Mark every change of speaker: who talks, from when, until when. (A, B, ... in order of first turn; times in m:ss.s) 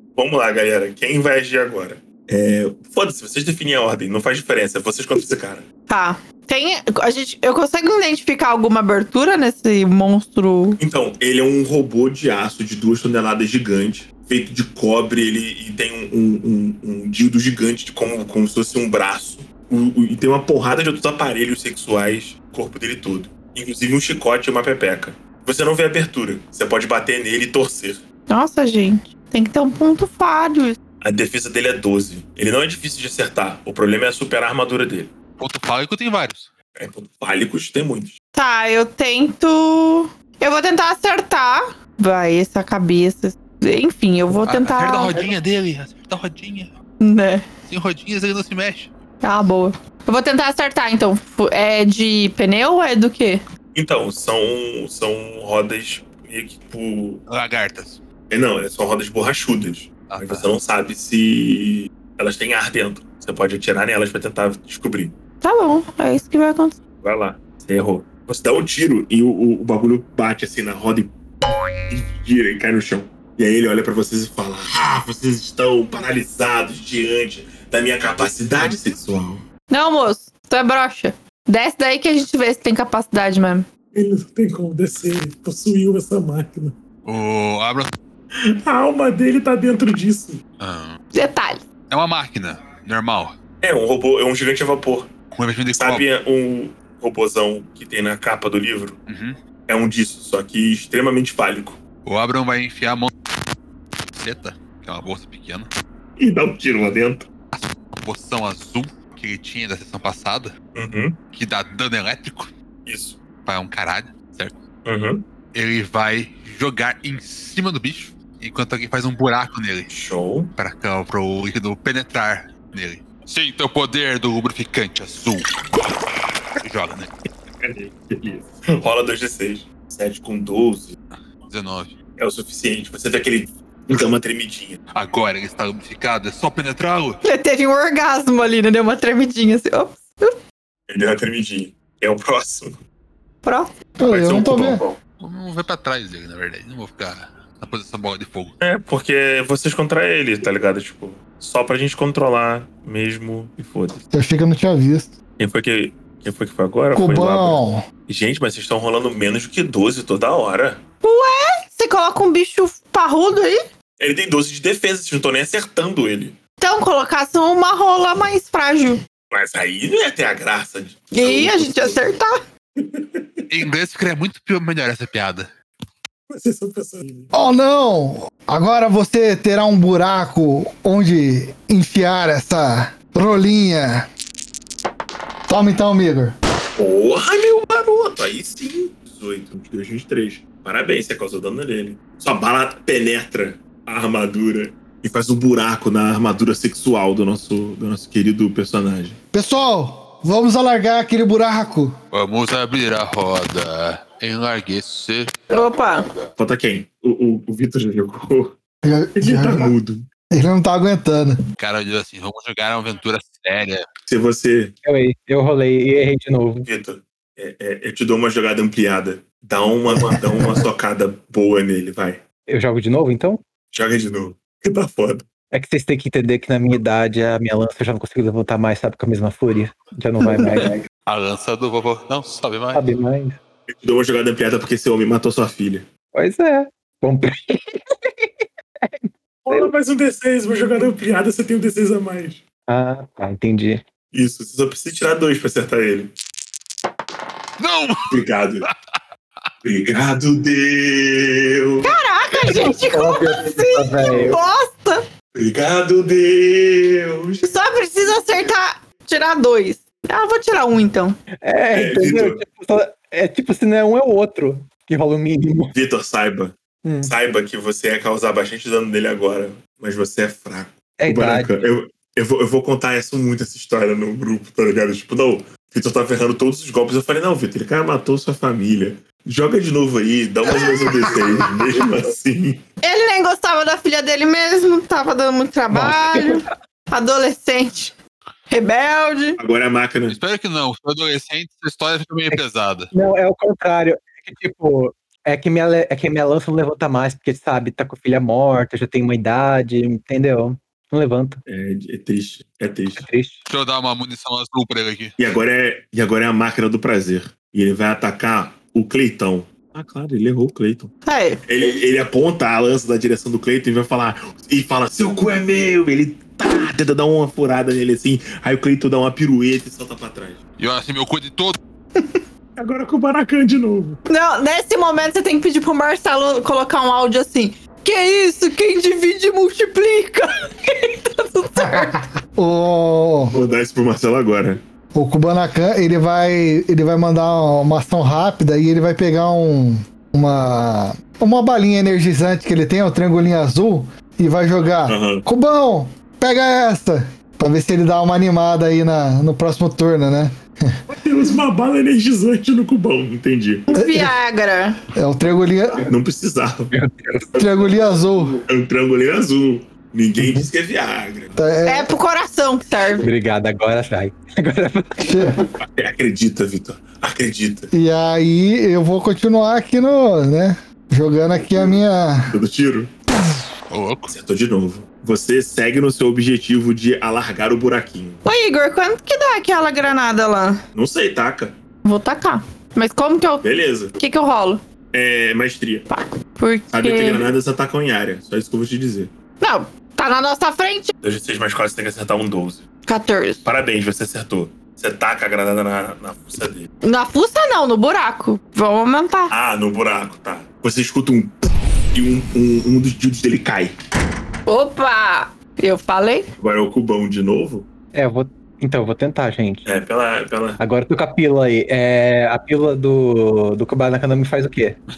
0:00.1-0:05.7 A
0:05.9-0:10.8 B
0:10.8-0:28.0 A
0:28.3-0:30.8 B
0:31.0-0:35.1 A
0:35.4-0:36.5 C
0:36.8-0:38.2 A
0:38.4-0:45.3 B
0:44.5-0:46.7 C
0:47.0-0:47.5 B
0:47.7-0:48.9 C
0:49.2-0:53.4 B
0:53.7-0:57.2 A
0:57.3-0:58.0 C
0:58.3-1:05.2 A
1:00.1-1:00.5 C
1:05.4-1:06.8 B
1:07.0-1:11.2 A
1:11.9-1:19.5 A
1:19.7-1:23.7 B
1:23.9-1:26.8 A
1:27.0-1:27.9 C
1:28.4-1:30.4 A
1:30.6-1:31.0 C
1:31.1-1:31.6 B
1:31.9-1:33.3 C
1:33.6-1:35.1 A
1:35.3-1:36.0 C
1:35.7-1:39.0 A
1:39.1-1:39.4 C
1:39.7-1:41.8 A
1:42.0-1:43.1 C
1:44.1-1:45.7 C
1:46.2-1:47.3 A
1:47.5-1:50.5 C
1:50.8-1:51.2 A
1:51.3-1:52.5 C
1:52.9-1:53.2 A
1:53.4-1:54.6 C
1:54.8-1:55.2 A
1:55.5-1:59.9 C
1:59.9-2:00.5 A
2:00.6-2:05.6 C
2:06.6-2:07.1 C
2:07.6-2:11.0 A
2:11.5-2:12.0 C
2:12.2-2:14.8 A
2:14.9-2:17.2 C
2:17.2-2:20.3 B
2:20.9-2:22.8 A
2:23.4-2:23.7 B
2:24.0-2:24.8 D
2:24.0-2:25.0 A
2:25.2-2:28.6 C
2:28.6-2:34.0 A
2:34.1-2:35.2 D
2:35.4-2:40.8 A
2:36.9-2:37.9 D
2:41.0-2:43.6 B
2:44.0-2:46.4 A
2:46.6-2:49.0 B
2:49.3-2:52.0 A
2:51.1-2:52.4 B
2:52.8-2:53.5 A
2:53.5-2:55.5 C
2:56.3-2:57.3 A
2:57.3-3:04.1 D
3:05.5-3:06.4 D
3:06.8-3:19.2 A
3:19.3-3:22.0 D
3:22.1-3:25.3 C
3:25.5-3:26.1 B
3:26.4-3:28.6 A
3:28.8-3:29.7 D
3:29.2-3:30.1 A
3:30.3-3:31.4 D
3:31.6-3:33.9 C
3:34.1-3:34.8 A
3:34.8-3:36.7 E
3:36.7-3:42.2 A
3:40.1-3:40.5 D
3:42.5-3:43.4 E
3:43.7-3:45.2 A
3:45.5-3:50.8 E
3:50.4-3:50.7 B
3:51.1-3:52.8 C
3:52.7-3:53.4 E
3:53.7-3:55.9 A
3:56.1-3:59.7 E
3:59.4-4:02.4 A
4:02.7-4:03.8 E
4:04.1-4:06.1 A
4:07.6-4:08.7 C
4:08.1-4:08.7 A
4:09.6-4:11.9 A
4:11.8-4:15.0 B
4:12.5-4:14.4 E
4:15.3-4:17.5 A
4:17.4-4:21.2 B
4:21.4-4:25.7 E
4:21.7-4:22.4 A
4:25.7-4:42.6 A
4:26.8-4:27.1 E
4:31.0-4:31.5 E
4:42.8-4:47.9 B
4:45.7-4:46.4 E
4:48.5-4:49.4 B
4:49.4-4:50.2 A
4:50.1-4:52.9 C
4:52.9-5:01.4 E
5:01.5-5:03.1 A
5:03.0-5:03.4 E
5:03.5-5:05.2 C
5:05.2-5:10.9 A
5:11.1-5:11.4 B
5:11.5-5:20.4 A
5:20.6-5:21.6 C
5:22.0-5:22.2 B
5:22.6-5:24.0 A
5:24.1-5:32.0 B
5:31.6-5:33.4 D
5:33.3-5:34.6 A
5:34.9-5:50.7 D
5:44.9-5:45.2 A
5:50.9-5:53.7 A
5:53.7-5:54.8 B
5:53.8-5:54.1 D
5:55.0-5:55.9 D
5:55.8-5:56.7 A
5:56.7-5:57.4 E
5:57.4-5:58.4 D
5:58.5-6:01.4 A
6:00.2-6:00.5 E
6:01.4-6:01.9 D
6:01.6-6:03.1 B
6:03.0-6:05.3 E
6:05.0-6:05.4 D
6:05.6-6:07.7 A
6:07.7-6:12.4 D
6:12.3-6:12.9 A
6:13.7-6:14.1 C
6:14.1-6:18.2 A
6:18.2-6:20.6 B
6:20.7-6:21.6 A
6:21.8-6:23.5 B
6:23.4-6:24.0 A
6:24.0-6:24.6 B
6:24.9-6:25.9 A
6:25.9-6:27.3 B
6:26.7-6:29.1 A
6:29.4-6:30.9 B
6:31.0-6:32.7 A
6:32.9-6:33.5 B
6:33.4-6:36.7 A
6:36.8-6:39.3 B
6:39.3-6:43.8 A
6:44.5-6:46.3 B
6:46.4-6:47.7 A
6:47.9-6:49.7 E
6:49.6-6:50.6 A
6:50.6-6:54.8 E